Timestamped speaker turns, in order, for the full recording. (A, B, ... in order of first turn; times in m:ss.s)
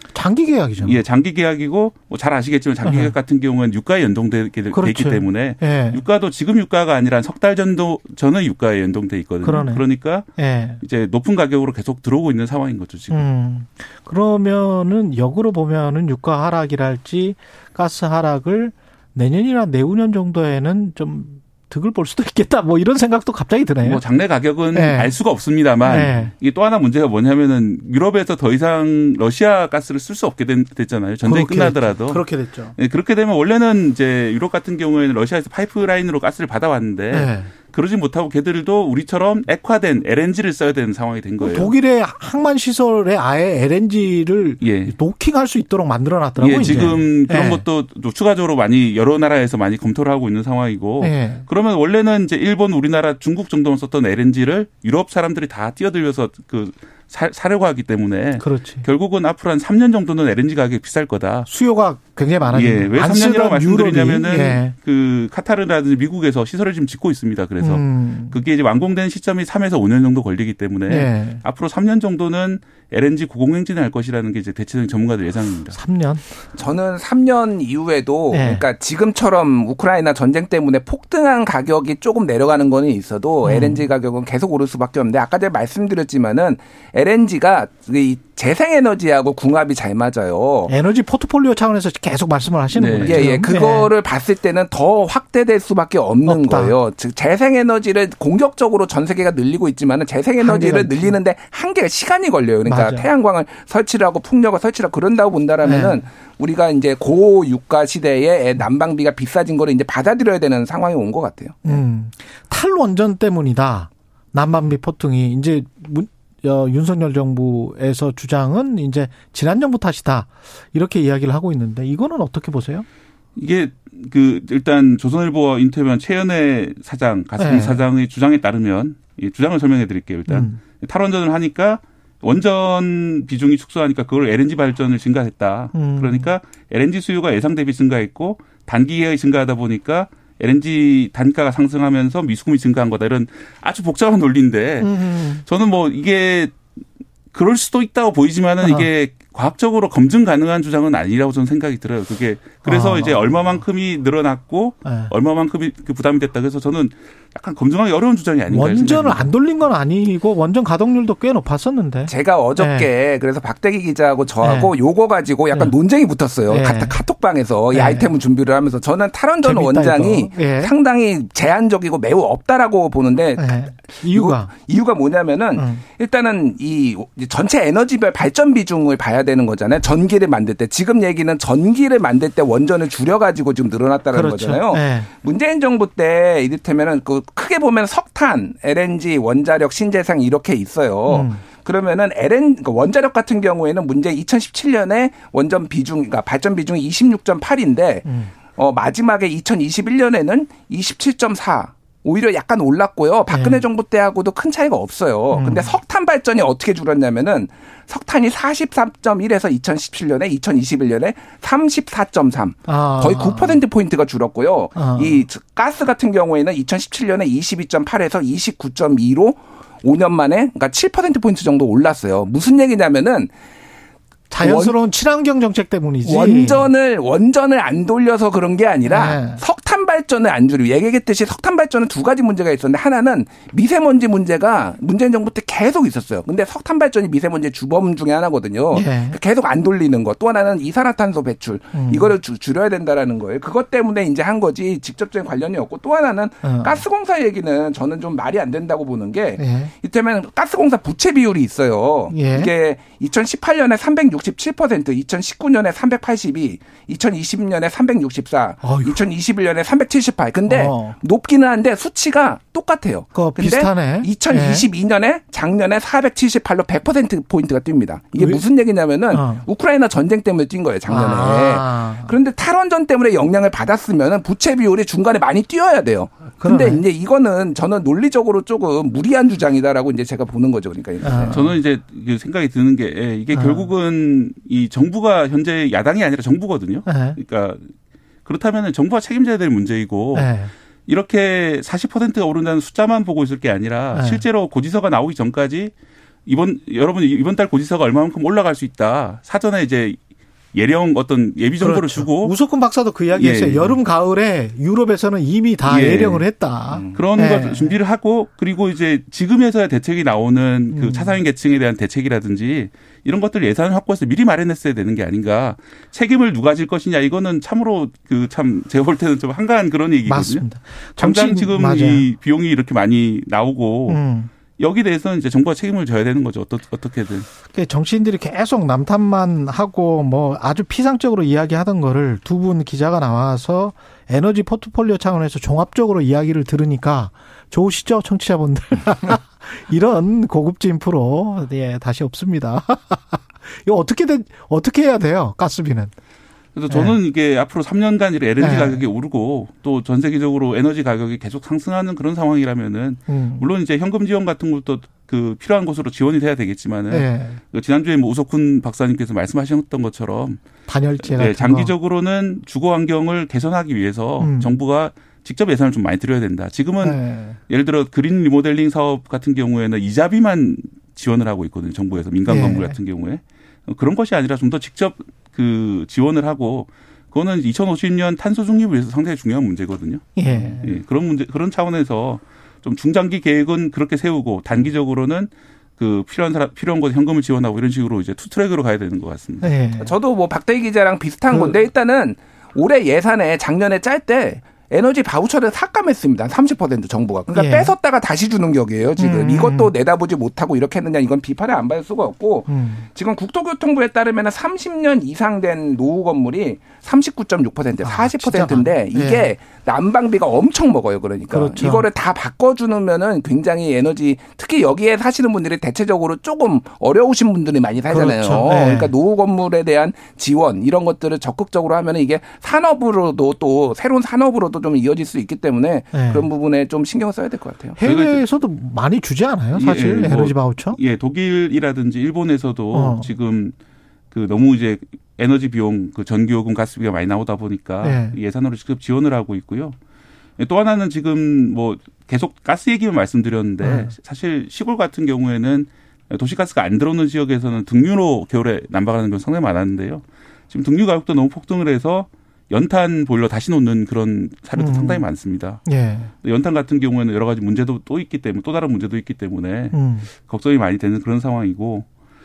0:00.1-0:01.0 A
0:00.8-0:10.3 B
0:02.8-0:03.1 A
0:04.7-0:06.0 A
0:09.4-0:10.8 A
0:10.8-0:13.3 B
0:13.1-0:24.0 A
0:23.8-0:41.7 B
0:24.7-0:25.2 A
0:25.8-0:26.3 A
0:31.2-0:32.7 A
0:37.1-0:37.5 A
0:41.4-0:47.6 A
0:44.6-0:45.0 B
0:46.4-1:01.5 B
0:51.0-0:51.4 A
0:58.4-0:58.8 A
1:01.5-1:04.7 A
1:02.5-1:15.8 B
1:07.6-1:08.4 A
1:10.9-1:11.4 A
1:15.7-1:16.2 A
1:16.6-1:30.7 C
1:18.3-1:18.6 A
1:23.4-1:23.8 A
1:30.7-1:33.9 A
1:32.8-1:33.5 B
1:33.0-1:51.8 C
1:36.2-1:36.7 A
1:40.4-1:41.2 A
1:42.6-1:43.1 A
1:45.6-1:46.0 A
1:51.6-2:02.9 A
2:03.4-2:26.6 B
2:07.4-2:07.8 A
2:10.3-2:10.6 A
2:15.7-2:16.3 A
2:24.8-2:25.4 A
2:27.3-2:39.3 B
2:32.6-2:33.6 A
2:34.8-2:35.1 A
2:38.5-2:42.9 A
2:42.1-3:43.3 C
2:44.4-2:44.7 A
2:46.5-2:47.0 A
2:47.7-2:48.1 A
2:49.4-2:50.7 A
2:53.4-2:54.5 A
2:55.6-2:55.8 A
3:04.1-3:05.1 A
3:11.1-3:11.4 A
3:18.0-3:18.3 A
3:23.3-3:23.6 A
3:25.3-3:25.8 A
3:32.6-3:33.6 A
3:34.7-3:35.2 A
3:44.3-3:46.7 A
3:44.4-3:44.7 C
3:46.0-4:41.4 C
3:48.8-3:49.4 A
3:58.7-3:59.2 A
4:01.7-4:02.1 A
4:06.4-4:06.8 A
4:09.4-4:09.7 A
4:12.1-4:12.5 A
4:18.6-4:19.0 A
4:20.5-4:21.0 A
4:23.1-4:24.7 A
4:28.2-4:28.4 A
4:29.1-4:29.4 A
4:30.9-4:32.1 A
4:36.4-4:36.8 A
4:41.0-4:41.5 A
4:41.3-4:47.7 B
4:43.3-4:43.7 A
4:46.8-4:47.2 A
4:48.2-4:50.3 B
4:50.1-4:50.5 A
4:50.9-4:55.7 B
4:53.9-4:54.2 A
4:56.2-5:00.0 B
5:00.5-5:02.3 B
5:01.6-5:07.7 A
5:03.2-5:03.8 B
5:05.6-5:06.2 B
5:06.7-5:07.0 C
5:06.9-5:20.4 B
5:10.7-5:11.2 A
5:20.0-5:22.0 A
5:21.0-5:24.0 B
5:23.9-5:24.3 A
5:24.6-5:27.3 B
5:27.5-5:45.9 A
5:46.6-6:00.4 B
5:46.7-5:47.0 A
5:48.4-5:48.8 A
5:53.1-5:53.5 A
5:56.9-5:57.4 A
6:00.7-6:01.7 A
6:01.0-6:29.5 B
6:04.2-6:04.5 A
6:06.8-6:07.4 A
6:12.2-6:12.8 A
6:20.2-6:20.8 A
6:29.4-6:29.9 A
6:29.8-7:07.8 C
6:31.3-6:31.6 A
6:37.3-6:37.7 A
6:39.0-6:39.7 A
6:42.5-6:42.9 A
6:47.8-6:49.3 A
6:51.3-6:51.9 A
6:57.9-6:58.9 A
7:05.9-7:06.3 A
7:07.8-7:10.8 A
7:07.8-7:08.2 B
7:09.5-7:13.5 B
7:12.7-7:13.1 A
7:14.1-7:19.8 B
7:17.8-7:18.2 A
7:20.4-7:35.6 B
7:23.6-7:23.9 A
7:34.6-7:35.0 A
7:35.6-7:36.1 A
7:36.2-7:41.9 B
7:39.7-7:40.1 A